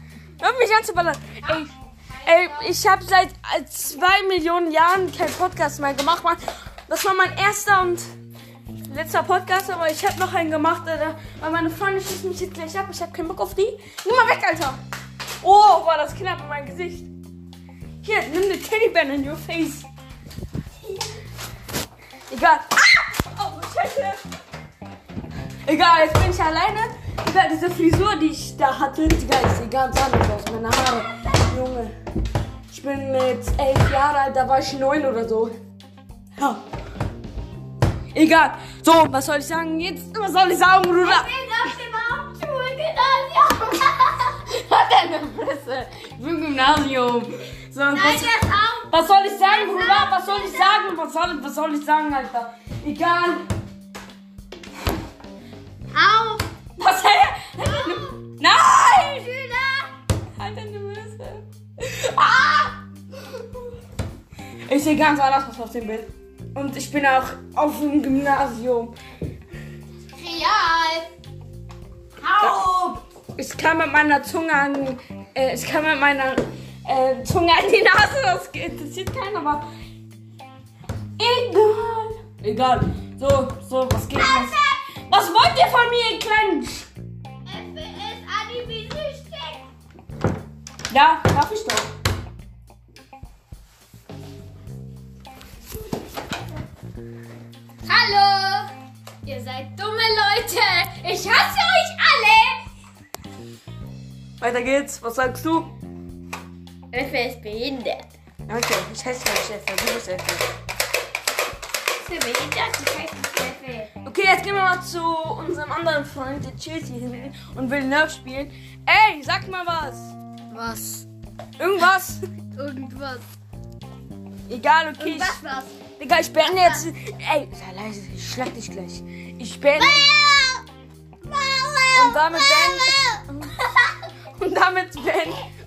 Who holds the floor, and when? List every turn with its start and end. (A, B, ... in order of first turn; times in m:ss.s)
0:00.4-0:01.7 A
0:01.4-0:02.7 B
0:02.2-0:08.0 A
0:08.8-0:14.8 A
0:15.4-0:17.1 A
0:18.0-0:19.9 A
0:22.3-0:24.2 A
0:25.6-0:31.9 A
0:32.7-0:35.5 A
0:36.4-0:36.6 A
0:38.1-0:41.3 A
0:41.0-0:44.3 B
0:44.4-0:48.3 A
0:47.9-0:48.9 B
0:48.9-0:53.4 A
0:49.4-0:50.9 B
0:55.9-0:56.4 B
0:56.8-0:59.3 A
0:57.6-0:58.1 B
0:59.1-0:59.9 B
1:00.3-1:02.8 A
1:04.7-1:09.0 A
1:10.2-1:11.1 B
1:12.2-1:13.0 B
1:12.4-1:12.8 A
1:13.4-1:19.6 A
1:21.2-1:24.6 A
1:24.1-1:24.8 B
1:25.1-1:26.9 A
1:27.4-1:29.6 B
1:30.9-1:31.9 A
1:37.8-1:38.7 B
1:39.2-1:42.6 B
1:44.4-1:45.7 A
1:46.9-1:48.1 B
1:48.5-1:50.5 A
1:52.0-1:53.9 B
1:54.0-2:00.1 A
2:00.5-2:01.0 B
2:01.6-2:02.2 A
2:02.6-2:03.2 B
2:04.5-2:05.4 A
2:05.0-2:05.8 B
2:06.0-2:10.1 A
2:06.4-2:06.8 B
2:09.8-2:10.6 B
2:11.2-2:13.2 B
2:11.9-2:13.5 A
2:14.3-2:15.5 A